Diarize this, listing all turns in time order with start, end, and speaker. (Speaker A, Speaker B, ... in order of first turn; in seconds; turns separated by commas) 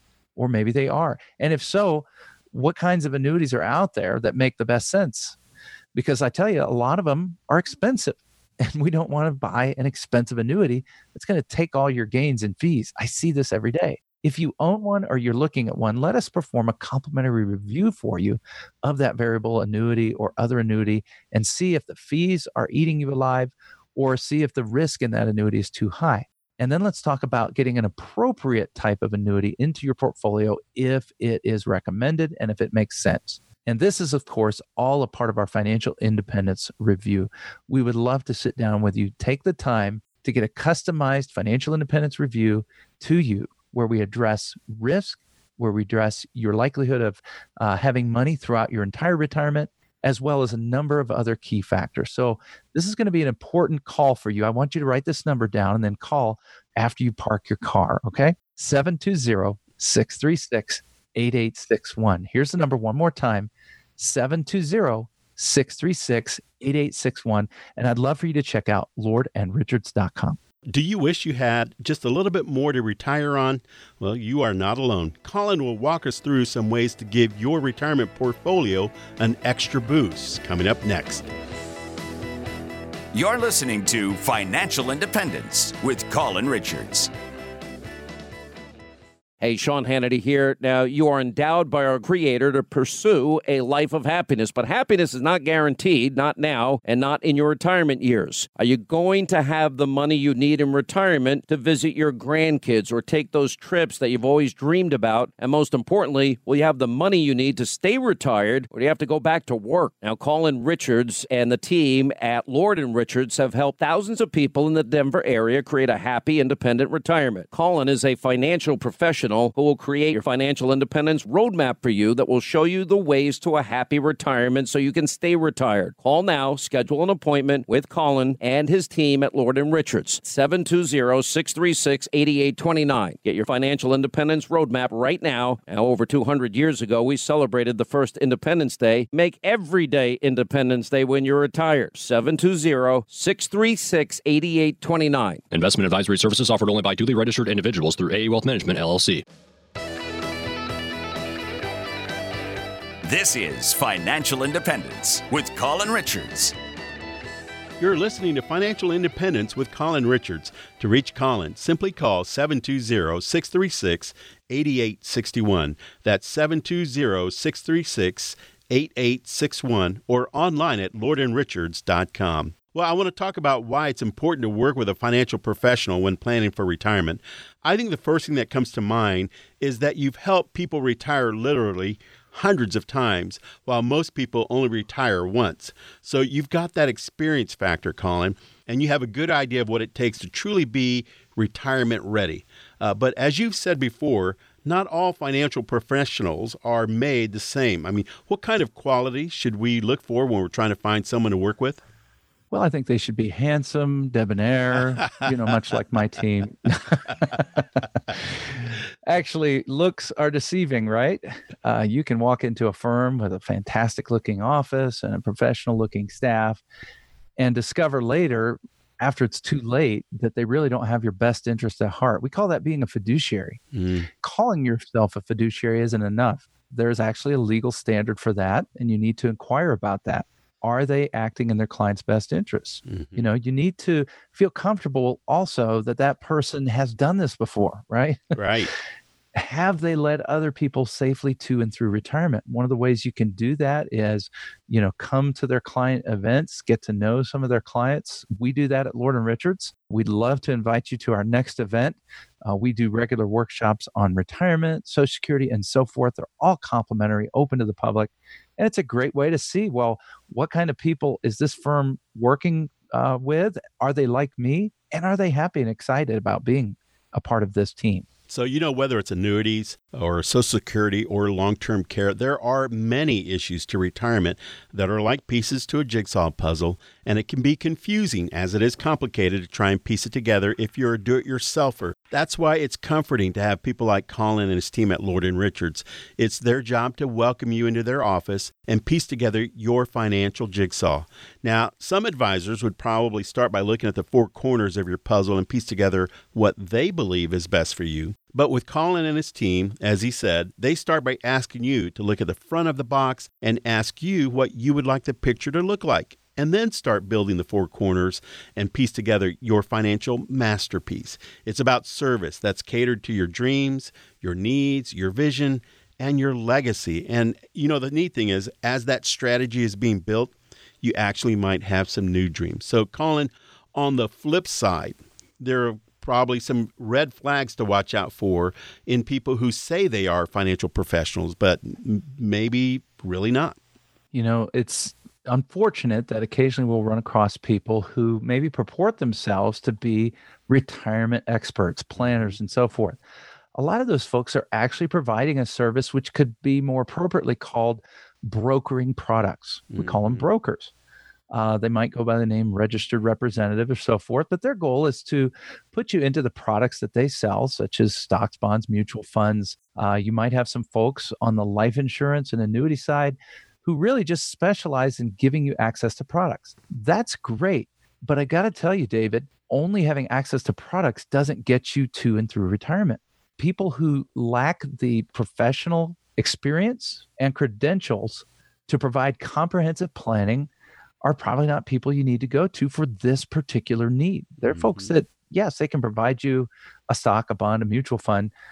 Speaker A: 0.3-5.3, Speaker A: 5.9-70.4, Speaker B: 70.7-81.2, Speaker C: 83.1-87.1, Speaker D: 89.4-145.4, Speaker E: 145.5-149.2, Speaker C: 153.0-156.5, Speaker B: 157.8-201.8, Speaker A: 202.5-208.3, Speaker A: 209.1-216.6, Speaker A: 217.4-223.6, Speaker B: 223.7-224.1, Speaker A: 224.2-238.4, Speaker B: 232.9-233.2, Speaker B: 238.3-238.7, Speaker A: 239.3-268.1, Speaker B: 268.3-333.6, Speaker A: 334.1-343.0, Speaker B: 341.9-342.4, Speaker A: 343.5-350.7, Speaker B: 349.7-350.3, Speaker A: 351.3-380.5, Speaker A: 381.0-388.3, Speaker B: 384.5-384.9